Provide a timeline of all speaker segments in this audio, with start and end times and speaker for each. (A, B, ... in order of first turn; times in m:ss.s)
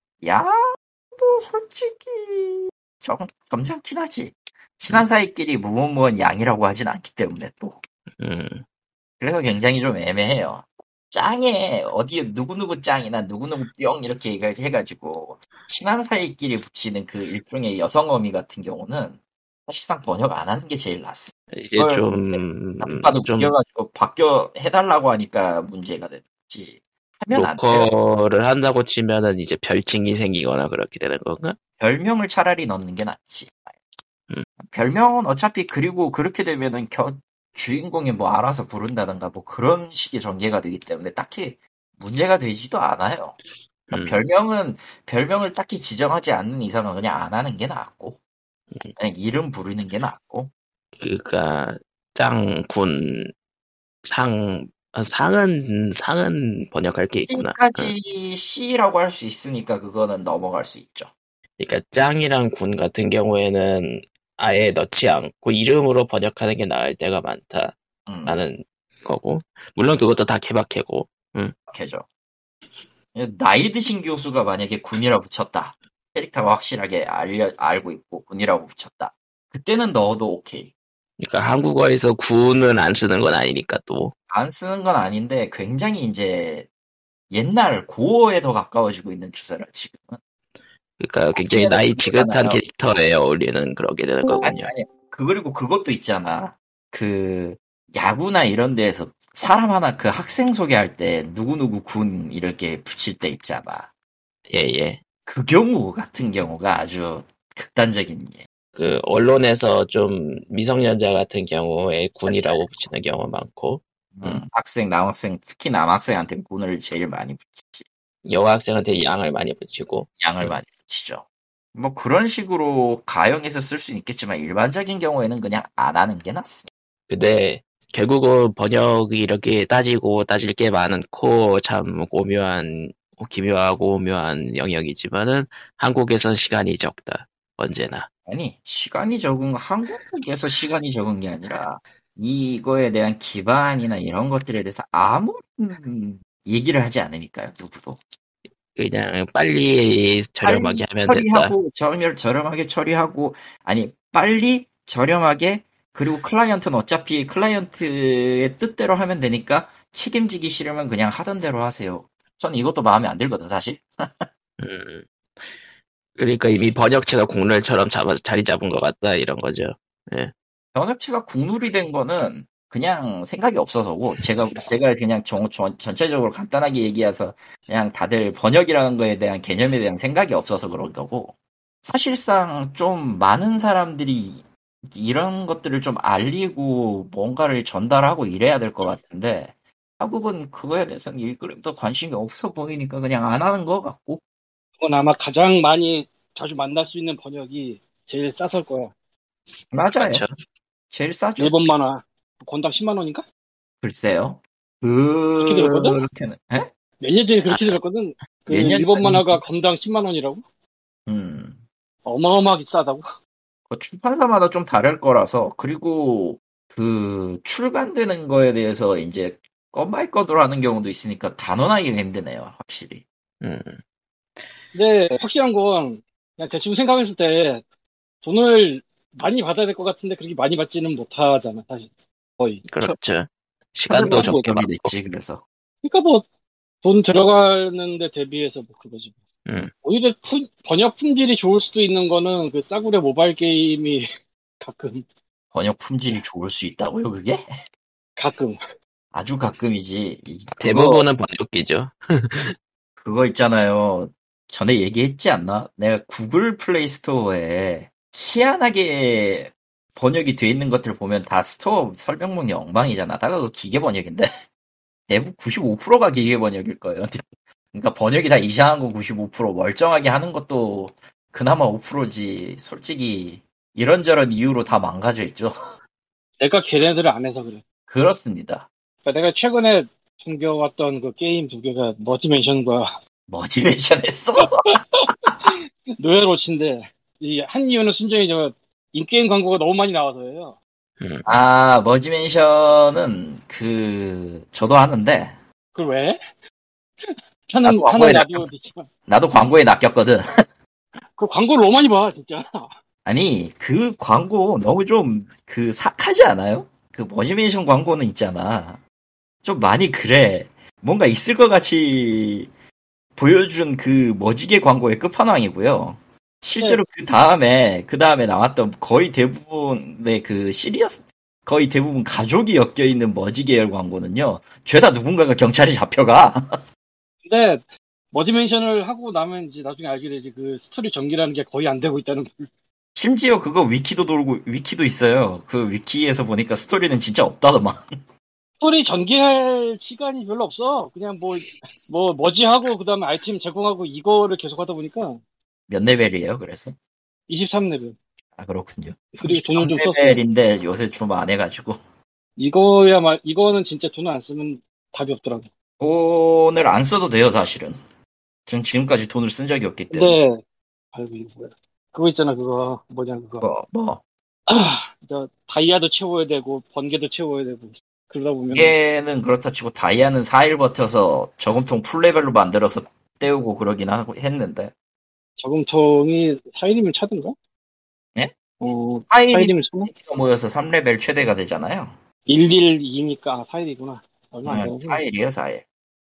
0:00.2-0:00.5 A
0:01.1-0:07.8 A
0:08.2-0:08.6 B
0:09.2-0:27.9 A
0:21.5-0:23.5 B
0:27.3-0:31.6 B
0:31.8-0:33.8 A
0:34.6-0:43.4 A
0:43.9-0:44.2 B
0:43.9-0:48.2 A
0:49.0-0:50.5 A
0:51.0-0:53.3 B
0:54.0-0:57.9 B
0:57.3-1:01.1 A
1:01.6-1:11.5 B
1:08.0-1:08.4 A
1:11.7-1:12.0 A
1:13.1-1:20.7 A
1:21.2-1:24.1 B
1:24.3-1:26.7 A
1:27.3-1:30.2 A
1:31.0-1:34.7 B
1:31.4-1:32.6 A
1:34.4-1:43.9 A
1:44.5-1:45.0 B
1:45.2-1:48.4 A
1:48.7-1:54.4 B
1:52.3-1:52.7 A
1:54.2-1:57.8 A
1:58.2-2:00.5 B
2:00.2-2:06.7 A
2:07.1-2:18.1 B
2:18.2-2:28.0 A
2:28.8-2:31.5 B
2:30.4-2:44.3 A
2:44.6-2:45.1 B
2:46.2-2:50.3 B
2:50.7-3:14.2 A
3:14.8-3:18.9 C
3:19.7-3:20.2 A
3:19.9-3:20.3 B
3:20.9-3:21.6 A
3:21.4-3:23.2 C
3:23.8-3:26.7 A
3:25.4-3:26.0 C
3:27.0-3:30.4 C
3:27.5-3:27.8 B
3:28.5-3:29.4 A
3:31.1-3:31.6 A
3:32.0-3:33.0 C
3:33.7-3:43.0 A
3:43.4-3:43.8 B
3:44.7-3:47.6 C
3:48.2-3:52.6 C
3:52.6-3:54.9 B
3:53.9-3:55.4 A
3:54.0-3:54.4 C
3:55.8-3:56.2 C
3:56.8-3:59.2 C
3:59.4-3:59.7 B
3:59.8-4:04.1 C
4:04.6-4:05.0 C
4:05.5-4:07.4 A
4:08.2-4:08.6 C
4:09.1-4:11.1 A
4:10.6-4:12.5 B
4:13.0-4:24.3 A
4:25.1-4:35.5 A
4:36.4-4:37.6 C
4:37.9-4:38.7 A
4:39.0-4:43.0 C
4:43.3-4:45.5 A
4:44.4-4:50.6 C
4:51.0-4:51.3 B
4:51.2-4:55.4 A
4:55.7-4:56.2 C
4:57.0-4:58.9 C
4:57.6-4:58.5 A
4:59.1-5:00.2 A
5:01.2-5:02.7 C
5:03.0-5:08.8 A
5:09.4-5:12.5 A
5:13.2-5:26.4 A
5:27.2-5:32.5 C
5:32.9-5:37.8 A
5:38.6-5:45.2 C
5:45.7-5:46.8 A
5:47.3-5:48.0 C
5:48.4-5:51.8 A
5:49.2-5:50.2 C
5:52.4-5:55.5 C
5:55.8-5:57.8 A
5:58.5-6:00.2 A
5:59.9-6:00.4 C
6:00.9-6:03.5 C
6:03.4-6:04.0 A
6:04.5-6:08.7 C
6:08.5-6:14.7 A
6:15.4-6:17.3 C
6:18.6-6:19.9 C
6:19.1-6:22.0 A
6:22.3-6:25.0 C
6:24.4-6:25.6 A